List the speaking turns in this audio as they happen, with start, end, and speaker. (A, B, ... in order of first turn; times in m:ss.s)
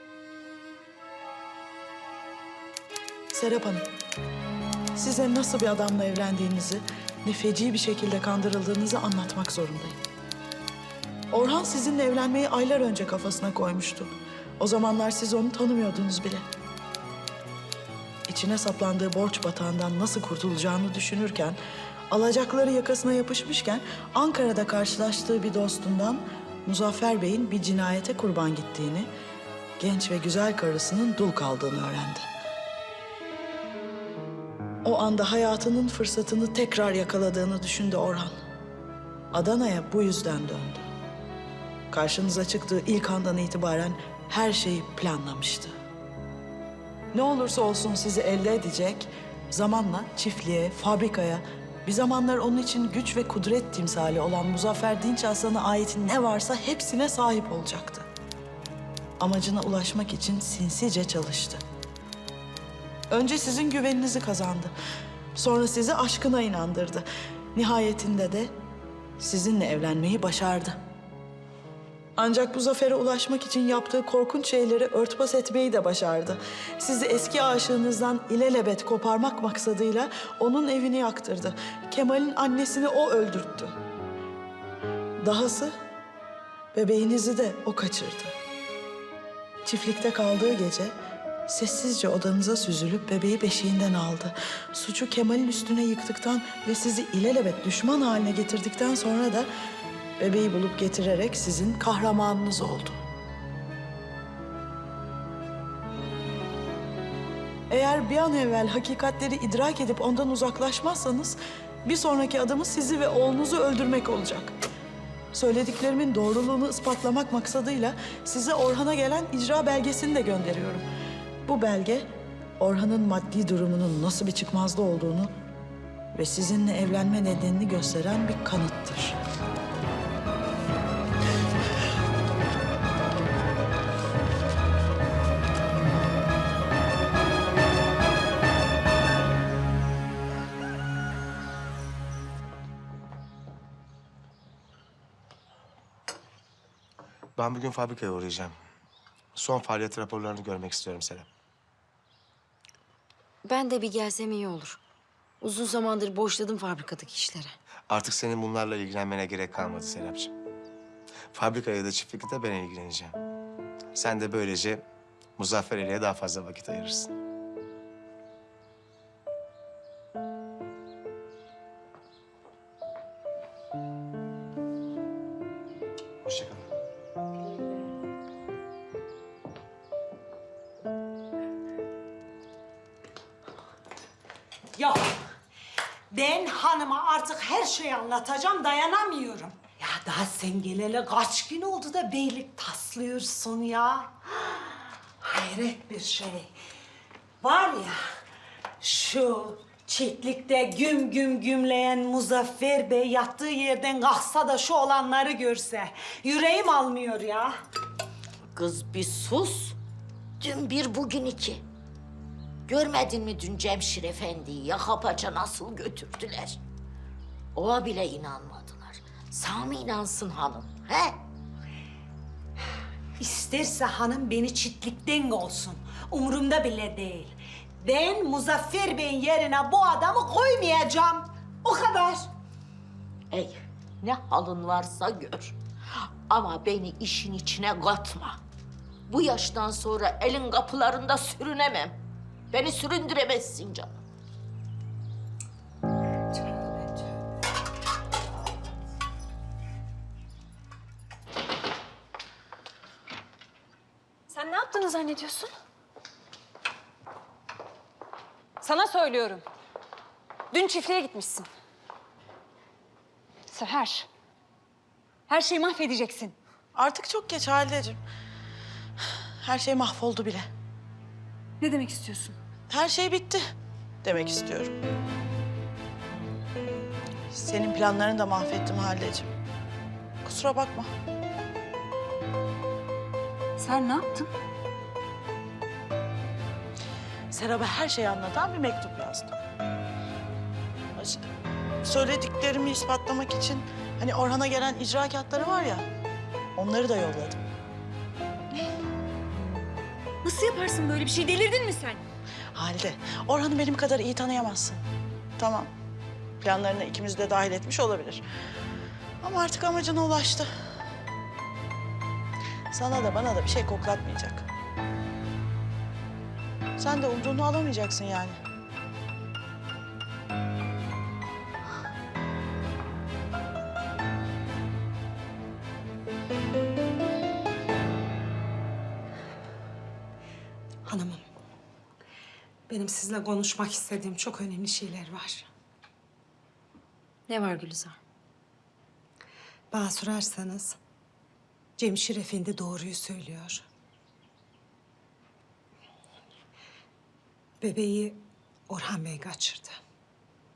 0:03.3-0:03.8 A
0:05.0-0:10.0 A
0:11.3-0:16.4 A
0:18.3-0:21.6 A
0:22.1-0:29.1 A
0:29.8-0:32.2 A
0:34.8-0:38.4 A
0:39.3-0:40.8 A
0:41.9-0:45.7 A
0:47.1-0:58.1 A
0:59.2-1:01.6 A
1:03.1-1:04.7 A
1:05.4-1:08.5 A
1:09.2-1:10.8 A
1:12.2-1:23.7 A
1:25.2-1:25.7 A
1:26.7-1:28.3 A
1:29.6-1:30.9 A
1:31.5-1:39.5 A
1:40.2-1:43.0 A
1:47.7-1:54.5 A
1:55.3-2:00.9 A
2:01.5-2:02.1 A
2:02.6-2:05.3 A
2:06.2-2:09.2 A
2:27.4-2:28.6 B
2:29.4-2:31.3 B
2:33.4-2:34.8 C
2:35.4-2:37.6 C
2:37.9-2:40.3 B
2:41.3-2:43.2 B
2:44.0-2:44.8 B
2:45.4-2:47.1 B
2:56.2-2:56.6 B
3:04.8-3:05.2 D
3:06.1-3:14.1 D
3:15.2-3:16.5 D
3:17.4-3:18.0 D
3:18.8-3:27.6 D
3:28.5-3:29.8 E
3:30.4-3:31.6 E
3:32.7-3:36.6 E
3:37.6-3:41.2 E
3:43.2-3:52.3 D
3:53.3-3:55.6 E
3:56.3-3:58.4 E
3:59.1-4:02.0 E
4:02.5-4:03.9 E
4:14.3-4:15.5 F
4:18.6-4:19.4 F
4:20.5-4:21.5 F
4:23.5-4:24.1 F
4:25.3-4:26.4 F
4:26.8-4:28.0 A
4:29.4-4:30.5 A
4:31.6-4:32.4 F
4:32.7-4:33.4 A
4:34.0-4:34.8 A
4:37.3-4:39.3 A
4:40.2-4:40.9 A
4:43.6-4:44.3 F
4:47.3-4:49.4 A
4:51.0-4:51.3 A
4:51.8-4:55.9 A
4:56.6-4:57.4 A
5:00.2-5:02.0 F
5:02.5-5:04.8 A
5:05.4-5:05.7 A
5:06.4-5:08.2 A
5:09.2-5:10.5 A
5:12.7-5:14.5 A
5:16.8-5:18.4 A
5:30.9-5:31.2 D
5:32.7-5:35.5 D
5:37.3-5:38.0 C
5:39.7-5:40.8 D
5:41.8-5:43.7 D
5:47.6-5:49.8 D